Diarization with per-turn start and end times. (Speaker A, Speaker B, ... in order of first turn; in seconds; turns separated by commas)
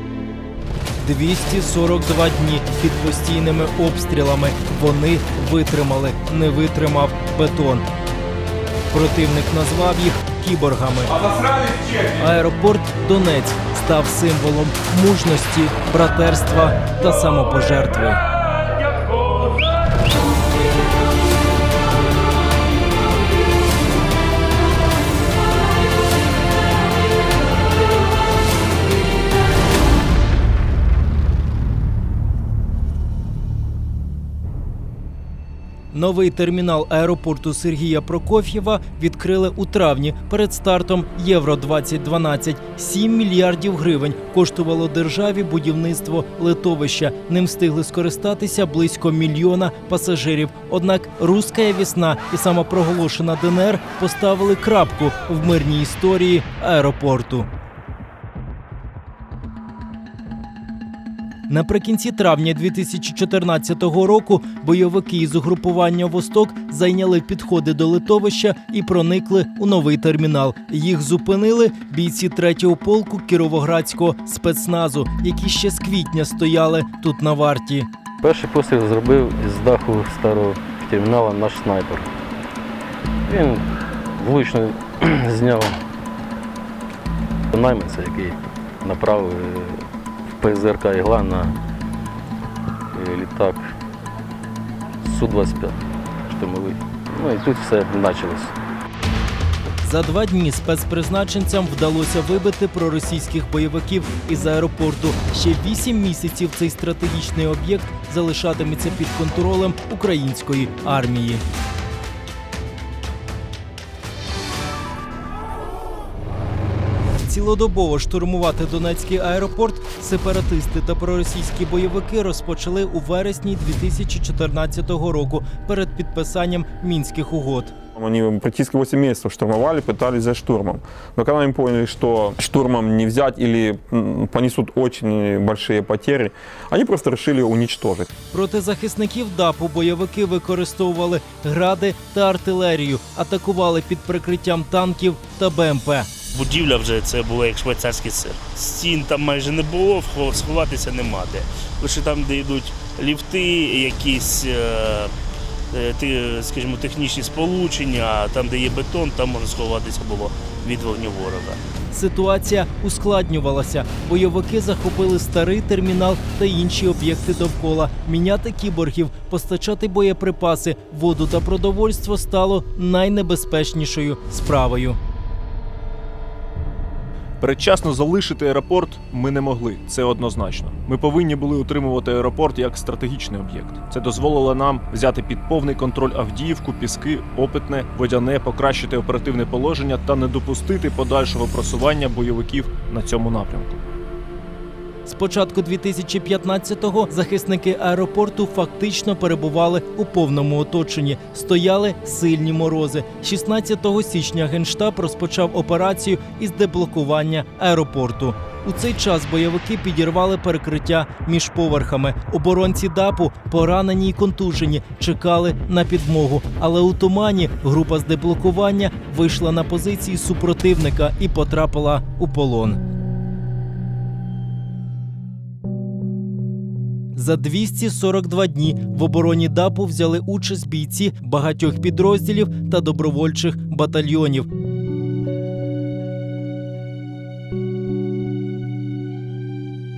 Speaker A: 1.0-7.9, Speaker A: 8.9-18.2, Speaker A: 35.9-57.5, Speaker A: 61.5-77.9, Speaker B: 78.2-82.1, Speaker B: 83.3-83.7, Speaker B: 84.2-85.8, Speaker B: 87.5-89.8, Speaker B: 90.4-91.6, Speaker B: 92.9-93.7, Speaker B: 95.0-98.5, Speaker A: 99.8-111.4, Speaker A: 117.2-127.7, Speaker C: 128.0-138.1, Speaker A: 138.3-146.1, Speaker D: 146.3-155.1, Speaker D: 155.7-161.6, Speaker A: 161.9-175.0, Speaker E: 177.4-193.8, Speaker A: 195.1-222.8, Speaker A: 227.1-234.5